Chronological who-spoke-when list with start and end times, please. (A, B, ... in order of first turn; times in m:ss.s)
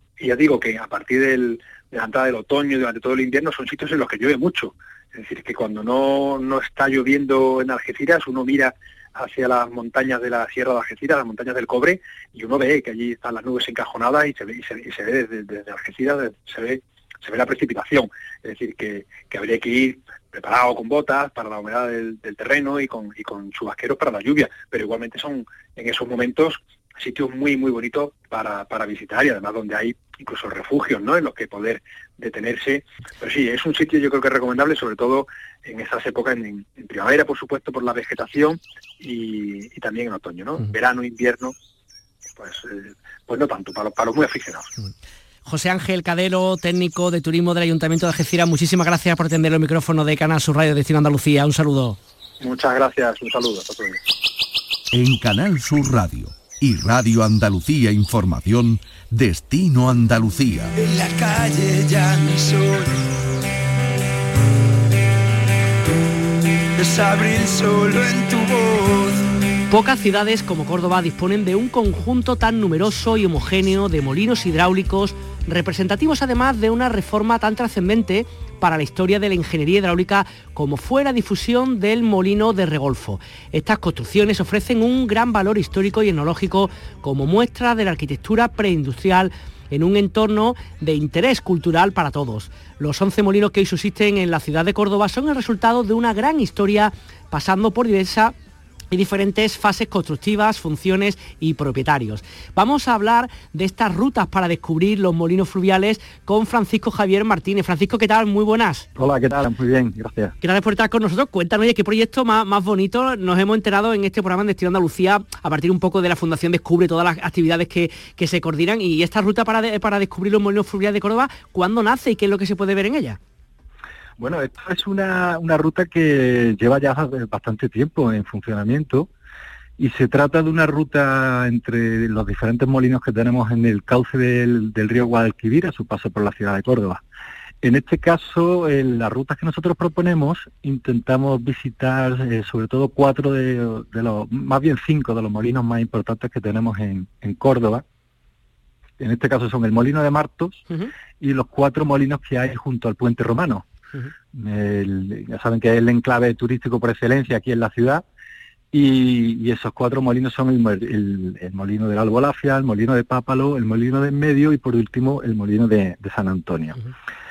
0:00.2-0:41.5 A
0:42.4-0:44.7 A
0:45.5-0:52.0 B
0:52.4-0:54.0 A
0:54.9-1:00.7 C
1:00.8-1:02.9 D
1:06.8-1:09.2 D
1:09.7-1:38.3 B
1:38.9-1:48.9 B
1:49.0-1:50.4 E
1:50.4-2:03.2 B
2:04.2-2:09.1 E
2:09.8-2:17.0 E
2:17.6-2:27.8 E
2:29.0-2:30.7 E
2:31.2-2:33.7 E
2:34.3-2:38.0 E
2:38.7-2:46.8 E